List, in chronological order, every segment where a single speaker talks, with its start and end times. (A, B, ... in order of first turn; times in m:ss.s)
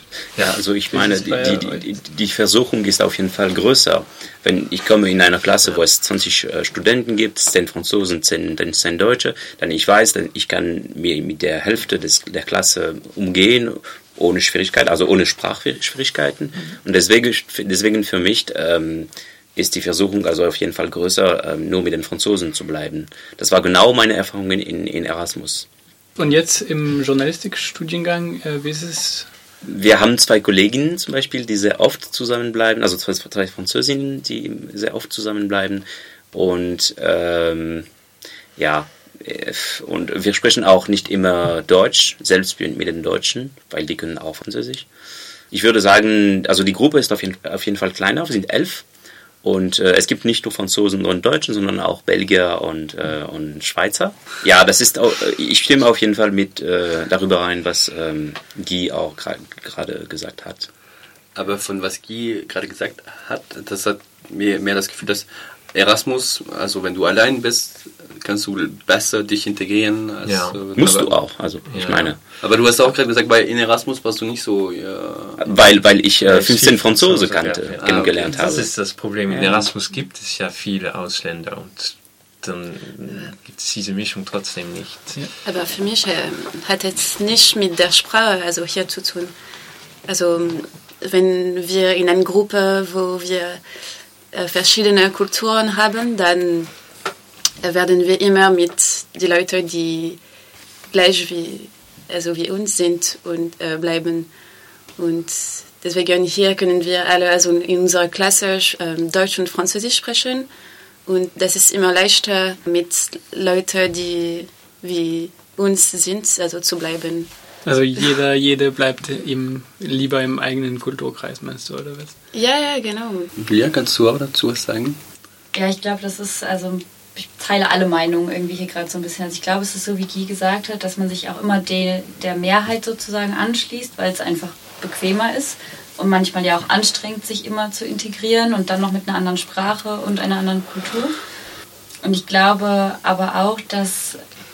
0:00.4-0:25.7 A
0:00.9-0:01.8 B
0:26.2-0:29.3 B
0:29.6-0:37.9 A
0:38.6-0:44.9 A
0:45.5-0:48.8 A
0:49.4-1:00.7 A
1:01.3-1:11.0 C
1:10.2-1:11.1 D
1:10.8-1:12.2 A
1:11.7-1:12.1 D
1:12.4-1:15.7 C
1:15.4-1:18.7 A
1:16.2-1:25.3 D
1:17.8-1:18.4 C
1:19.3-1:19.7 B
1:25.4-1:29.3 E
1:30.1-1:33.6 E
1:34.3-1:36.7 E
1:37.6-1:40.2 E
1:40.9-1:44.3 E
1:45.0-1:50.5 E
1:51.0-1:57.3 E
1:57.6-2:02.2 B
2:02.3-2:03.3 E
2:03.4-2:05.0 C
2:05.5-2:21.1 F
2:22.0-2:24.2 F